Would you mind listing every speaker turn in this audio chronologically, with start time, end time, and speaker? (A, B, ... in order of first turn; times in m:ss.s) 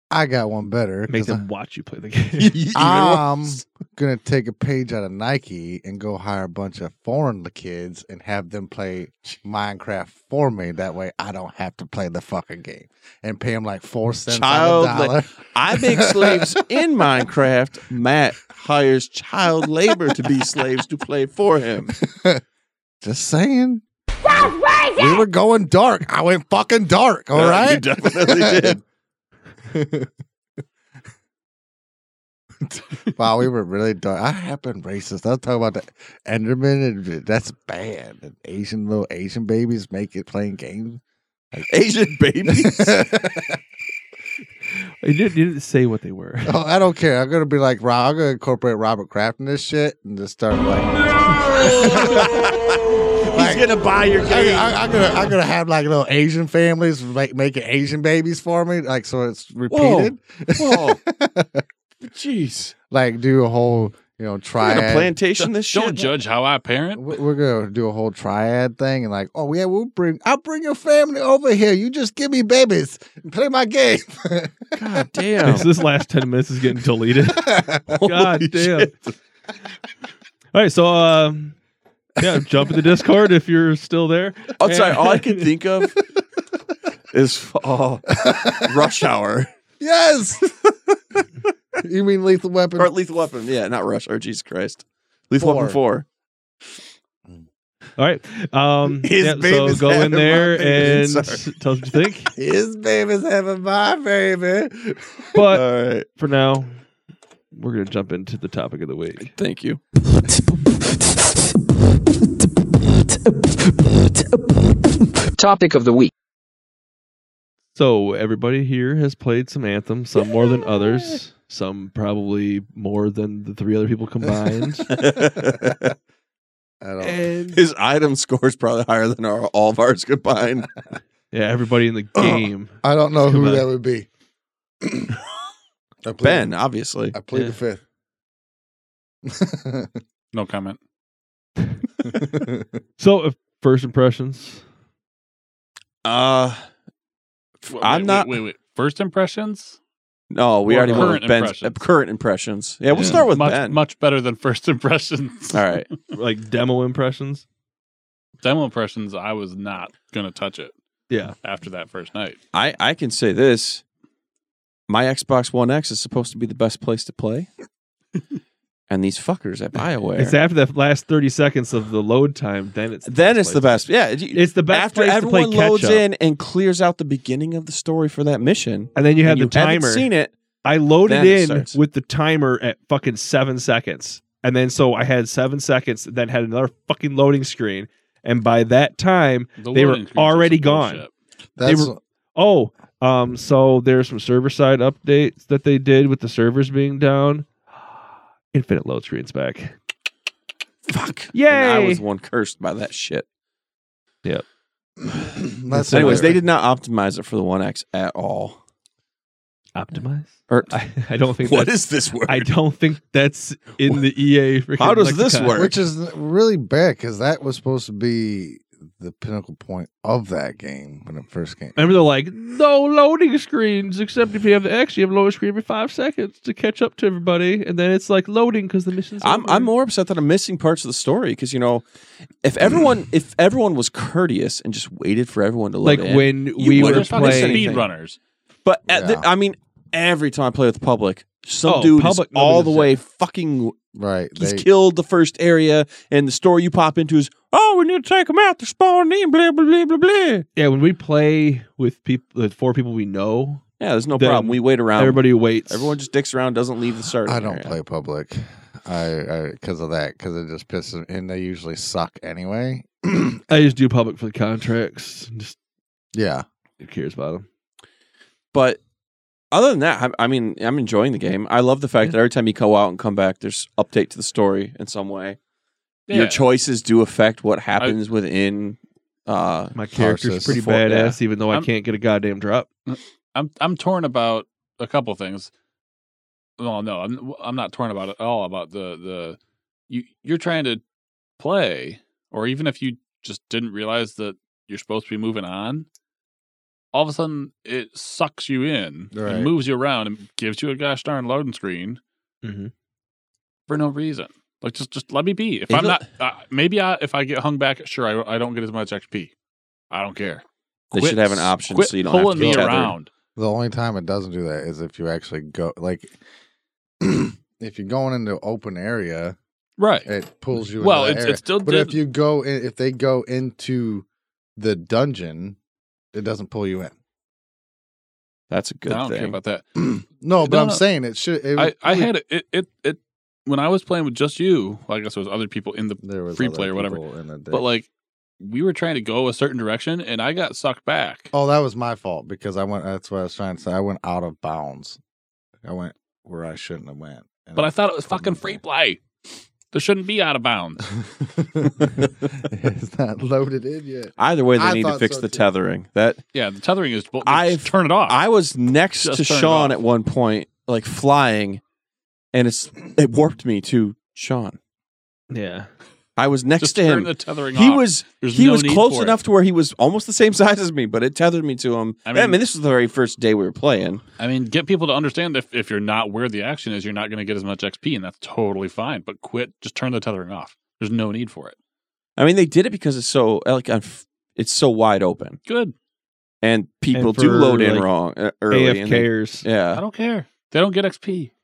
0:00.1-0:01.4 A
0:01.1-0:02.6 B
0:02.4-0:03.6 C
0:02.7-0:16.6 A
0:14.3-0:21.9 C
0:22.0-0:22.4 A
0:23.0-0:28.8 A
0:27.3-0:28.8 C
0:29.7-0:30.1 A
0:32.7-0:41.0 A
0:41.7-0:43.0 C
0:42.4-0:43.6 A
0:45.0-0:46.5 B
0:46.4-0:51.0 A
0:51.5-0:54.8 C
0:51.6-0:52.4 A
0:53.3-1:01.6 A
0:59.7-1:01.0 C
1:02.0-1:02.7 C
1:02.9-1:05.2 A
1:04.6-1:06.1 C
1:05.7-1:07.2 D
1:07.0-1:14.7 A
1:14.7-1:15.7 C
1:15.4-1:18.9 B
1:17.3-1:18.2 A
1:18.1-1:19.1 C
1:20.5-1:21.6 B
1:22.2-1:25.5 B
1:24.6-1:26.0 C
1:27.1-1:29.5 C
1:28.2-1:28.7 A
1:29.8-1:30.6 A
1:31.8-1:32.9 A
1:32.8-1:36.0 C
1:35.4-1:35.8 A
1:38.0-1:42.3 B
1:38.9-1:41.5 C
1:42.3-1:45.4 A
1:45.3-1:46.8 B
1:45.4-1:46.1 C
1:47.5-1:49.3 B
1:49.3-1:49.8 C
1:50.0-1:56.1 E
1:57.7-2:04.9 B
2:04.9-2:05.9 C
2:06.8-2:07.3 A
2:07.0-2:07.6 B
2:07.5-2:10.7 C
2:11.3-2:13.6 B
2:12.2-2:14.1 A
2:14.8-2:15.1 A
2:16.0-2:16.5 A
2:16.2-2:17.2 C
2:17.1-2:17.8 A
2:19.2-2:20.0 A
2:20.3-2:20.8 D
2:22.1-2:22.6 A
2:23.0-2:24.6 B
2:26.0-2:26.7 C
2:27.7-2:29.8 D
2:27.7-2:28.4 C
2:30.3-2:33.8 C
2:30.7-2:31.2 B
2:30.7-2:31.8 D
2:32.9-2:33.3 B
2:33.0-2:36.0 D
2:35.5-2:35.9 C
2:36.1-2:37.4 B
2:38.4-2:40.7 D
2:41.1-2:41.3 B
2:41.4-2:42.4 D
2:42.5-2:43.8 C
2:44.9-2:47.5 C
2:48.9-2:50.4 C
2:50.2-2:56.0 B
2:53.0-3:00.3 C
2:58.9-3:00.1 B
3:00.6-3:11.0 B
3:01.0-3:01.8 C
3:09.6-3:11.1 D
3:11.6-3:12.0 A
3:11.6-3:17.5 B
3:18.5-3:19.7 B
3:20.9-3:23.2 C
3:21.3-3:22.0 B
3:25.2-3:26.4 A
3:25.7-3:26.4 B
3:25.9-3:28.6 C
3:29.7-3:35.6 B
3:30.5-3:30.8 C
3:31.4-3:32.5 C
3:34.8-3:35.7 C
3:35.5-3:41.8 A
3:41.8-3:49.7 B
3:49.2-3:51.8 C
3:52.4-3:57.9 C
3:55.8-3:57.8 B
3:56.7-3:58.2 D
3:58.6-4:03.8 C
3:58.9-3:59.3 A
4:01.6-4:02.9 B
4:03.9-4:04.6 A
4:04.4-4:10.4 C
4:10.6-4:13.6 B
4:13.8-4:17.8 C
4:14.2-4:16.0 B
4:17.2-4:23.4 A
4:23.5-4:25.5 B
4:26.1-4:26.4 A
4:26.8-4:27.4 B
4:28.5-4:28.8 C
4:29.5-4:35.4 C
4:36.1-4:36.4 D
4:36.1-4:39.8 C
4:39.7-4:42.7 B
4:39.9-4:40.6 A
4:40.4-4:41.2 C
4:42.9-4:45.5 D
4:46.6-4:49.4 D
4:49.9-4:50.8 D
4:51.4-4:55.8 D
4:56.9-5:02.0 D
4:59.1-4:59.5 A
5:02.4-5:02.7 B
5:03.7-5:09.3 D
5:05.7-5:06.0 C
5:09.9-5:13.1 D
5:10.9-5:12.9 C
5:12.4-5:16.2 A
5:17.0-5:19.4 A
5:19.8-5:20.1 D
5:20.0-5:24.0 A
5:20.8-5:22.0 D
5:24.6-5:25.6 A
5:26.1-5:26.9 A
5:28.5-5:29.4 C
5:28.9-5:29.8 D
5:29.8-5:32.1 A
5:30.4-5:30.8 D
5:31.6-5:37.0 D
5:36.0-5:37.6 A
5:37.5-5:37.9 D
5:38.4-5:41.3 D
5:41.3-5:45.0 A
5:45.6-5:48.6 A
5:47.6-5:49.0 D
5:49.7-5:50.9 D
5:51.2-5:55.5 A
5:54.2-5:56.2 C
5:56.3-5:58.2 D
5:57.2-6:01.6 C
5:59.0-5:59.8 D
6:02.3-6:04.6 C
6:05.3-6:05.7 B
6:06.2-6:14.0 C
6:06.6-6:09.2 D
6:12.0-6:12.4 D
6:14.2-6:21.5 D
6:22.2-6:25.4 C
6:25.5-6:25.7 D
6:26.4-6:29.8 C
6:26.9-6:27.9 B
6:28.5-6:29.5 B
6:29.7-6:31.3 D